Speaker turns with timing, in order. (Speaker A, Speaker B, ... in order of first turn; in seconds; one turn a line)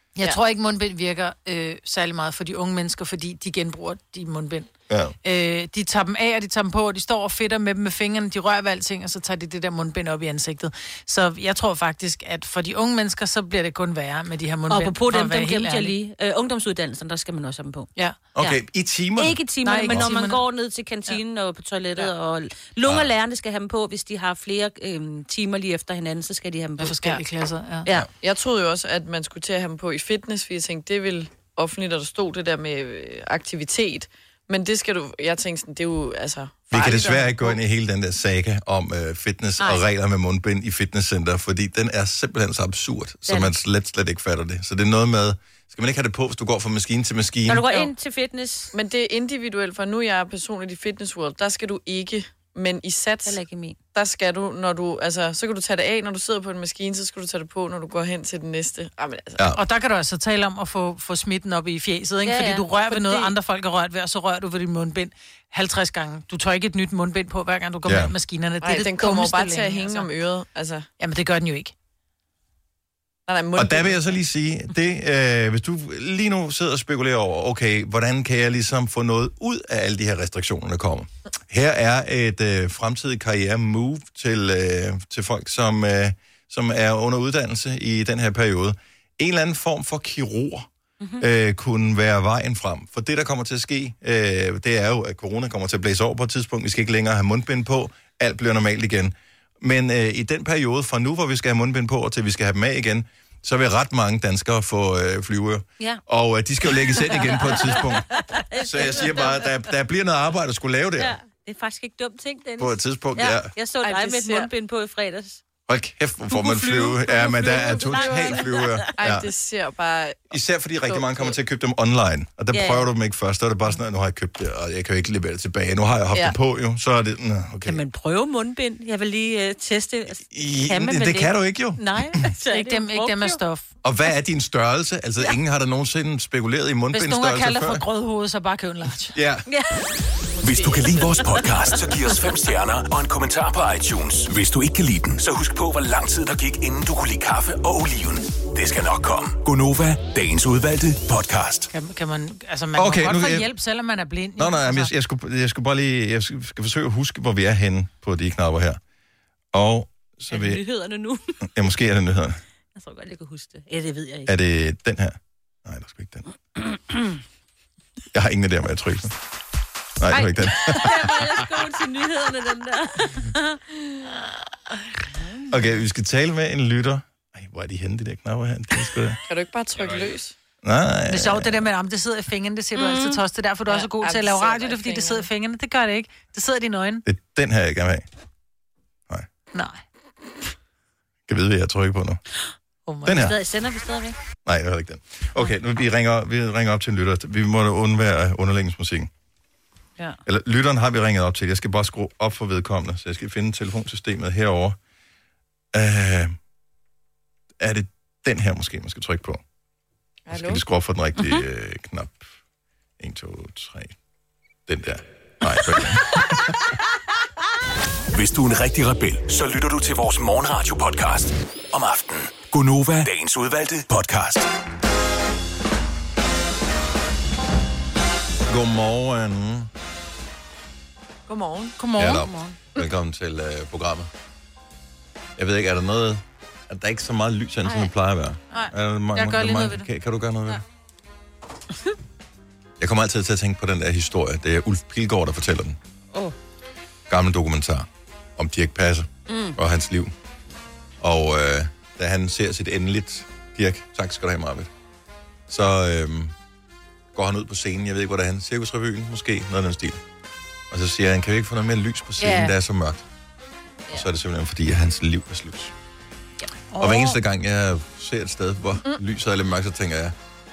Speaker A: 0.1-4.7
Speaker B: 4.9-5.1
Speaker A: 5.2-15.9
Speaker C: 14.7-18.6
Speaker B: 18.3-20.1
Speaker C: 19.1-27.2
Speaker A: 19.6-20.4
Speaker A: 26.8-27.9
Speaker D: 28.2-37.6
Speaker B: 36.7-47.8
Speaker C: 39.6-39.8
Speaker C: 43.3-43.5
Speaker C: 47.5-48.7
Speaker D: 48.7-53.4
Speaker C: 53.2-53.8
Speaker D: 53.9-59.4
Speaker A: 59.5-70.1
Speaker C: 62.2-62.7
Speaker D: 62.9-63.3
Speaker B: 67.8-68.1
Speaker D: 68.6-70.9
Speaker A: 71.0-71.7
Speaker D: 73.3-74.2
Speaker B: 73.5-90.7
Speaker B: 91.2-111.2
Speaker C: 106.8-109.5
Speaker C: 111.0-115.4
Speaker B: 112.6-113.5
Speaker D: 113.8-114.5
Speaker B: 115.7-119.3
Speaker C: 116.3-118.9
Speaker D: 118.0-118.4
Speaker D: 119.0-120.3
Speaker B: 120.3-127.8
Speaker D: 120.8-121.4
Speaker C: 122.5-122.9
Speaker C: 127.6-133.4
Speaker B: 130.1-131.8
Speaker A: 132.4-133.7
Speaker B: 133.8-137.8
Speaker A: 136.9-139.2
Speaker B: 139.1-139.4
Speaker C: 139.5-139.9
Speaker D: 140.4-141.4
Speaker E: 140.4-151.7
Speaker A: 151.7-154.9
Speaker B: 152.7-153.5
Speaker B: 154.4-158.8
Speaker B: 159.5-160.6
Speaker C: 160.3-161.4
Speaker B: 161.4-162.4
Speaker C: 162.7-164.3
Speaker B: 164.3-166.2
Speaker C: 166.6-167.1
Speaker B: 168.1-169.2
Speaker B: 170.0-171.6
Speaker C: 170.1-173.6
Speaker C: 175.1-175.5
Speaker B: 175.5-179.2
Speaker D: 179.3-180.3
Speaker B: 180.6-181.7
Speaker A: 181.1-187.0
Speaker C: 182.8-183.2
Speaker D: 183.7-185.3
Speaker B: 187.1-188.0
Speaker A: 189.5-189.8
Speaker B: 191.3-192.2
Speaker A: 192.8-193.3
Speaker B: 193.0-193.3
Speaker C: 193.1-194.2
Speaker B: 194.4-199.1
Speaker B: 200.2-204.8
Speaker B: 205.7-206.3
Speaker B: 207.6-209.4
Speaker D: 210.3-210.6
Speaker B: 210.3-212.3
Speaker B: 213.0-213.9
Speaker B: 214.7-216.5
Speaker E: 218.1-224.5
Speaker B: 228.5-229.7
Speaker D: 231.3-231.8
Speaker A: 231.8-232.2
Speaker B: 231.9-234.1
Speaker C: 232.0-232.6
Speaker B: 235.4-240.6
Speaker C: 237.6-237.9
Speaker A: 238.5-239.9
Speaker B: 242.8-245.8
Speaker B: 247.1-250.1
Speaker C: 249.3-249.6
Speaker B: 251.0-254.7
Speaker B: 255.5-256.3
Speaker B: 257.1-260.0
Speaker B: 260.7-263.0
Speaker C: 262.2-262.5
Speaker B: 263.9-265.7
Speaker C: 266.7-267.2
Speaker B: 266.8-270.1